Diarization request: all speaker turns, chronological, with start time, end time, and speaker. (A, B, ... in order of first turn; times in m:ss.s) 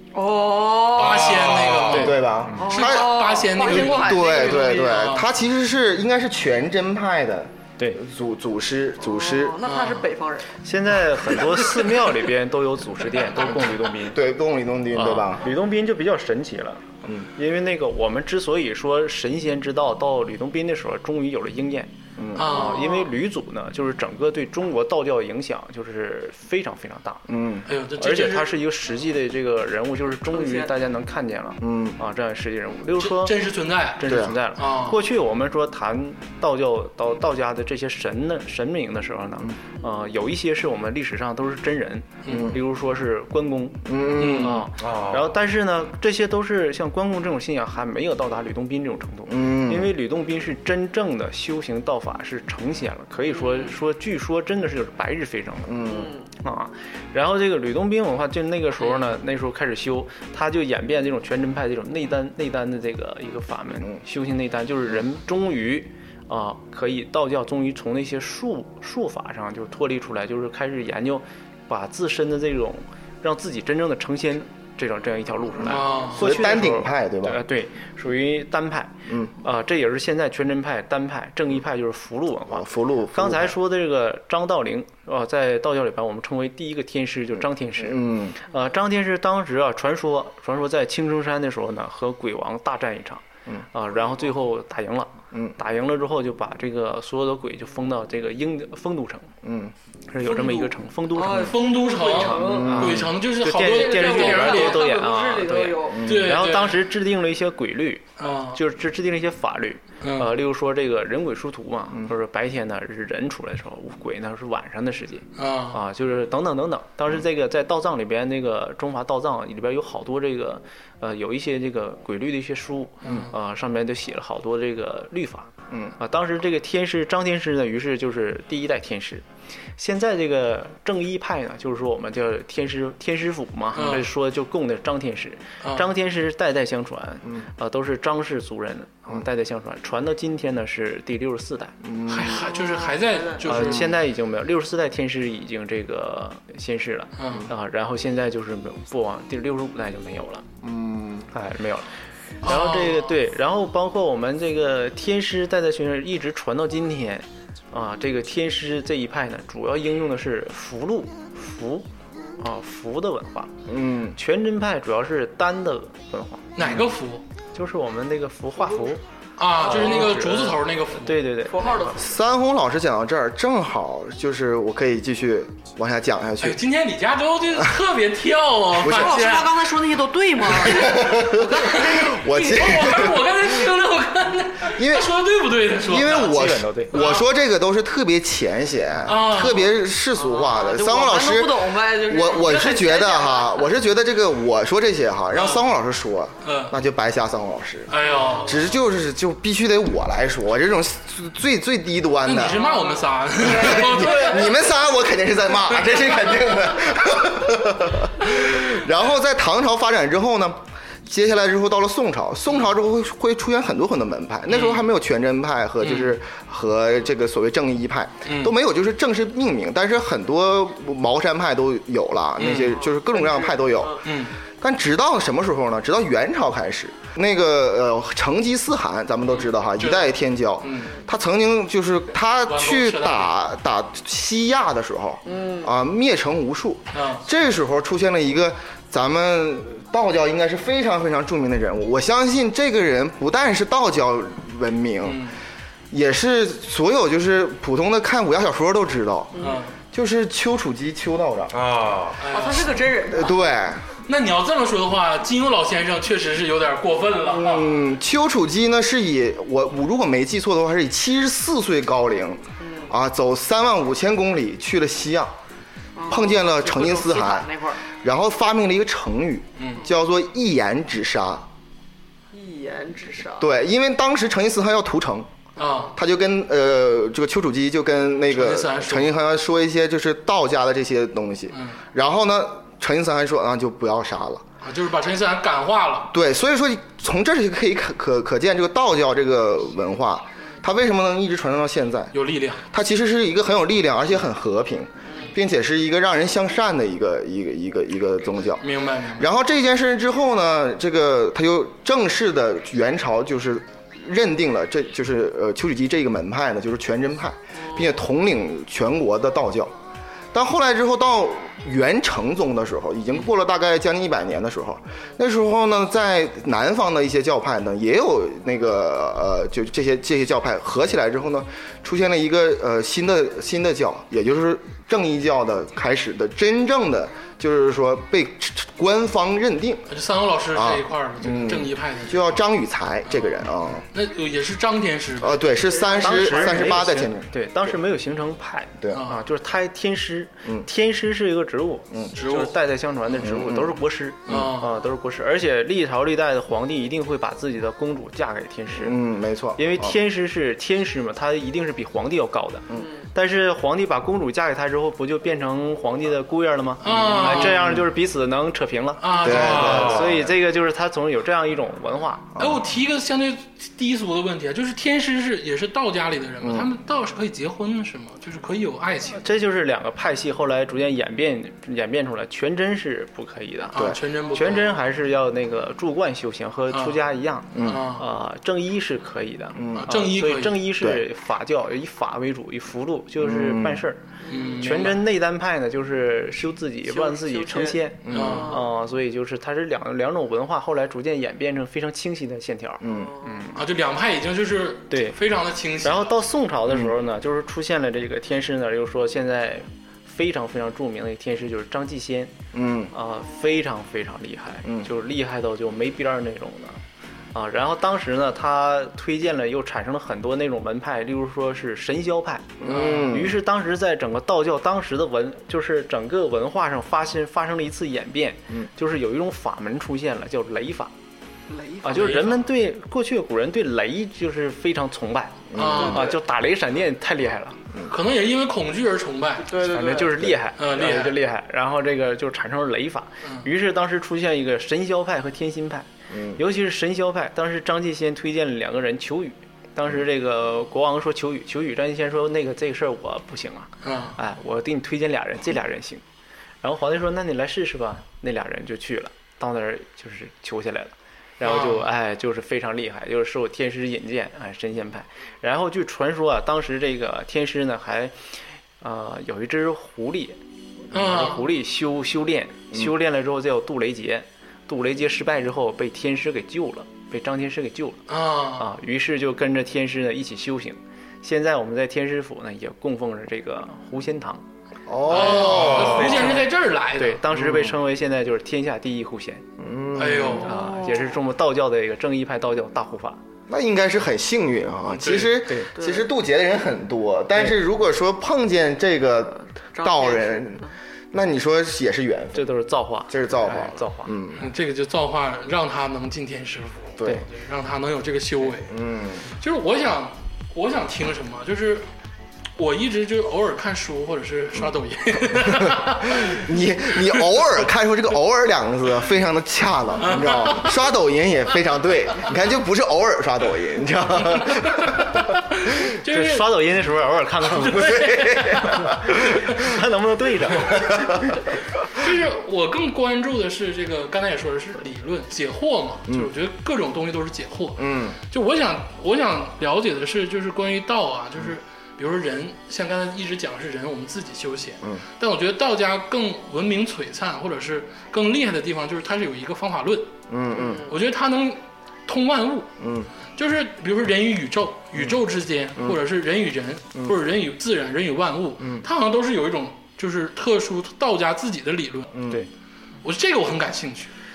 0:00.1-0:01.5 A
0:00.9-0:05.3 B
0:01.2-0:09.6 C
0:01.5-0:01.9 D
0:01.9-0:02.2 E
0:02.6-0:05.1 A
0:09.0-0:10.5 A
0:09.6-0:10.0 B
0:10.6-0:14.2 E
0:14.0-0:15.5 C
0:14.9-0:27.2 E
0:22.2-0:22.6 C
0:22.4-0:23.1 B
0:22.5-0:23.1 A
0:27.3-0:27.6 C
0:27.7-0:28.5 B
0:28.0-0:33.4 E
0:30.3-0:30.7 A
0:31.6-0:32.0 C
0:33.0-0:35.0 B
0:33.9-0:55.9 E
0:34.0-0:34.3 C
0:42.2-0:42.5 B
0:42.2-0:42.6 C
0:43.8-0:44.6 C
0:44.2-0:44.6 B
0:44.8-0:45.4 D
0:49.3-0:49.9 C
0:53.3-0:53.7 A
0:55.6-0:56.1 C
0:55.8-0:56.3 A
0:56.4-1:39.3 E
0:58.8-0:59.1 B
1:15.6-1:16.3 B
1:16.0-1:17.4 C
1:22.5-1:23.5 C
1:27.8-1:28.4 C
1:39.4-1:39.7 C
1:40.1-2:09.2 E
1:40.2-1:43.0 A
1:41.3-1:44.9 B
1:42.4-1:43.2 C
1:43.6-1:46.1 A
1:45.9-1:46.3 C
1:46.0-1:46.8 B
1:48.2-1:48.6 B
1:50.0-1:50.3 B
1:55.4-1:55.8 B
2:03.0-2:03.3 B
2:09.8-2:21.8 E
2:13.7-2:14.1 B
2:21.8-2:22.4 C
2:22.1-2:23.9 B
2:22.4-2:23.5 A
2:23.4-2:30.4 E
2:27.2-2:27.4 B
2:30.6-2:31.3 C
2:31.3-2:31.9 E
2:32.4-2:33.1 B
2:32.4-2:41.9 E
2:42.4-2:43.5 E
2:43.7-2:44.2 C
2:44.1-2:46.5 E
2:46.6-2:47.2 B
2:46.6-2:46.8 C
2:47.5-2:49.0 E
2:49.4-2:51.2 B
2:49.6-2:51.9 E
2:51.4-2:52.1 A
2:51.9-2:56.6 C
2:56.4-2:59.7 B
2:58.8-2:59.2 C
2:58.8-3:02.7 A
3:00.4-3:03.5 C
3:01.6-3:07.2 B
3:04.7-3:05.2 C
3:05.7-3:22.6 C
3:06.3-3:06.9 E
3:09.0-3:09.7 B
3:10.1-3:13.7 A
3:15.3-3:15.6 B
3:16.4-3:16.7 B
3:17.9-3:18.7 B
3:18.0-3:18.4 A
3:22.2-3:24.5 B
3:22.5-3:24.5 A
3:23.4-3:44.0 C
3:34.5-3:34.8 B
3:35.8-3:36.2 B
3:38.3-3:38.5 B
3:42.4-3:42.8 B
3:42.5-3:44.0 A
3:44.0-3:44.3 B
3:44.6-4:05.2 C
3:49.8-3:50.9 B
3:52.4-3:53.3 B
3:55.2-3:55.7 A
3:56.9-3:57.2 B
4:05.0-4:05.3 B
4:05.9-4:11.5 C
4:09.3-4:09.6 A
4:09.4-4:09.7 B
4:11.5-4:12.2 D
4:12.2-4:12.8 B
4:12.3-4:13.4 A
4:13.1-4:13.8 C
4:14.0-4:17.8 B
4:17.2-4:25.3 C
4:22.6-4:22.9 A
4:26.0-4:27.8 A
4:26.1-4:31.5 C
4:29.6-4:29.8 B
4:32.3-4:33.5 A
4:33.4-4:35.3 C
4:35.6-4:36.0 B
4:35.9-4:44.4 C
4:38.3-4:39.2 B
4:41.5-4:41.8 B
4:44.6-4:46.1 B
4:46.1-4:52.1 C
4:52.1-4:52.6 B
4:52.7-5:09.7 C
4:55.1-4:55.3 A
4:58.6-4:59.2 B
5:07.6-5:07.9 A
5:10.3-5:29.9 C
5:29.9-5:32.3 B
5:30.5-5:33.9 C
5:33.0-5:35.6 B
5:35.2-5:37.3 C
5:35.6-5:36.6 A
5:36.0-5:49.0 E
5:38.9-5:39.2 B
5:42.1-5:42.5 B
5:43.2-5:43.8 C
5:44.3-5:44.8 B
5:48.8-5:50.0 C
5:49.6-6:02.4 E
5:52.7-5:53.0 A
5:56.8-5:57.7 B
5:59.0-6:00.0 B
5:59.2-6:00.3 C
5:59.6-6:00.1 D
6:02.4-6:02.6 C
6:02.4-6:09.2 B
6:06.4-6:06.7 C
6:09.1-6:13.8 E
6:13.7-6:14.7 B
6:13.7-6:14.0 C
6:14.3-6:24.0 E
6:16.7-6:17.0 B
6:17.5-6:17.9 C
6:17.6-6:18.1 B
6:19.5-6:19.9 C
6:19.7-6:20.7 B
6:23.2-6:23.8 C
6:24.3-6:24.6 A
6:24.3-6:25.0 B
6:24.6-6:33.6 E
6:26.9-6:28.6 A
6:28.0-6:28.5 C
6:28.1-6:28.6 B
6:32.8-6:33.2 C
6:32.8-6:33.5 A
6:33.5-6:36.2 B
6:34.9-6:35.2 E
6:35.8-6:42.3 E
6:42.5-6:42.9 C
6:42.9-6:46.8 E
6:47.3-7:00.9 E
6:52.6-6:53.3 C
6:52.6-6:53.2 B
7:01.5-7:02.2 A
7:01.8-7:07.6 E
7:01.9-7:02.4 B
7:05.5-7:06.1 C
7:05.5-7:06.2 B
7:07.9-7:09.5 B
7:09.4-7:10.3 A
7:09.6-7:26.0 E
7:10.6-7:11.2 B
7:16.1-7:16.4 C
7:23.8-7:24.1 B
7:26.6-7:38.1 E
7:31.4-7:31.9 B
7:38.8-7:40.4 E
7:40.9-7:48.0 E
7:40.9-7:41.4 B
7:48.1-7:48.6 B
7:48.6-7:54.4 E
7:54.9-7:56.4 C
7:55.1-7:57.2 B
7:55.1-7:59.4 E
7:55.6-7:56.0 D
7:57.3-7:57.7 C
7:59.6-8:00.4 C
8:00.0-8:00.5 B
8:00.4-8:01.2 A
8:00.4-8:03.2 E
8:03.5-8:12.5 C
8:04.9-8:05.4 B
8:05.4-8:05.7 E
8:05.8-8:06.1 A
8:09.4-8:10.7 A
8:12.3-8:14.1 E
8:13.1-8:14.5 C
8:14.4-8:18.8 B
8:17.0-8:17.2 C
8:18.7-8:19.2 C
8:19.3-8:21.9 B
8:22.6-8:26.5 B
8:25.3-8:35.2 C
8:30.0-8:30.8 B
8:34.4-8:36.6 B
8:36.1-8:38.0 E
8:37.4-8:39.7 B
8:37.8-8:39.4 C
8:39.4-8:41.2 E
8:40.8-8:41.1 C
8:41.9-9:00.1 B
8:47.8-8:48.2 C
9:00.3-9:00.8 C
9:00.6-9:00.9 A
9:00.9-9:02.7 B
9:02.8-9:03.1 C
9:03.4-9:12.2 B
9:13.0-9:14.1 B